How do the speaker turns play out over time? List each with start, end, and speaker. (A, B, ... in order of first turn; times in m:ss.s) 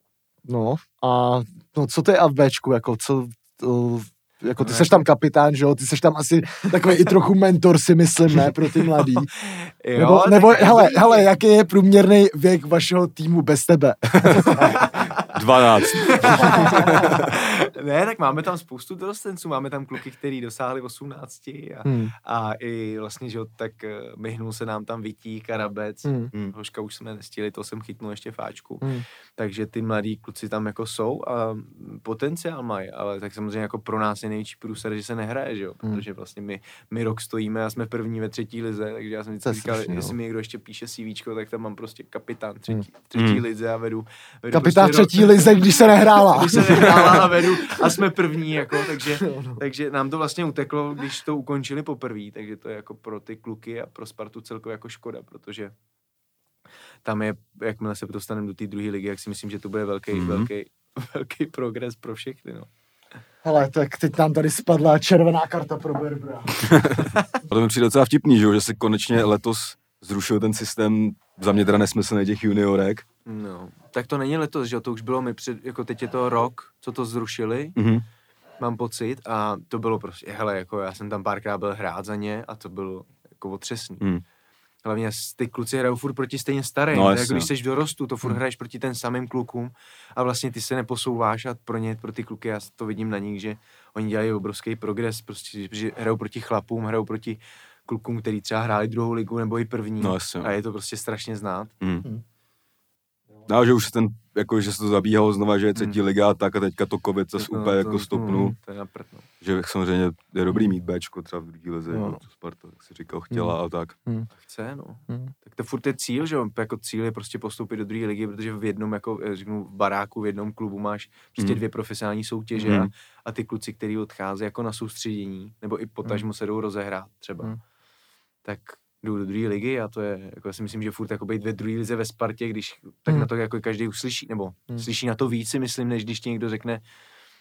0:00.4-0:09.3 A
0:04.6-0:05.0 B
0:09.0-0:11.3 B
0:10.0-0:14.8 A
0:14.4-0:15.3 B
0:15.3-0:17.2 C
0:16.1-0:55.7 B
0:16.3-0:17.0 A
0:21.8-0:22.1 A
0:26.0-0:26.3 A
0:39.4-0:40.1 A
0:43.2-0:43.4 C
0:44.5-0:48.0 A
0:48.8-0:49.6 A
0:57.0-1:02.7 B
1:00.1-1:00.5 C
1:03.4-1:06.7 A
1:06.6-1:13.0 C
1:13.2-1:17.8 B
1:17.8-1:18.0 C
1:18.6-1:24.0 B
1:24.8-1:41.7 B
1:26.9-1:27.5 C
1:40.0-1:40.5 C
1:41.8-1:42.1 C
1:43.5-1:48.5 C
1:47.4-1:49.3 B
1:49.4-1:54.0 C
1:51.9-1:52.2 A
1:53.3-1:54.3 A
1:54.4-2:07.5 B
2:02.6-2:02.9 C
2:08.4-2:16.8 B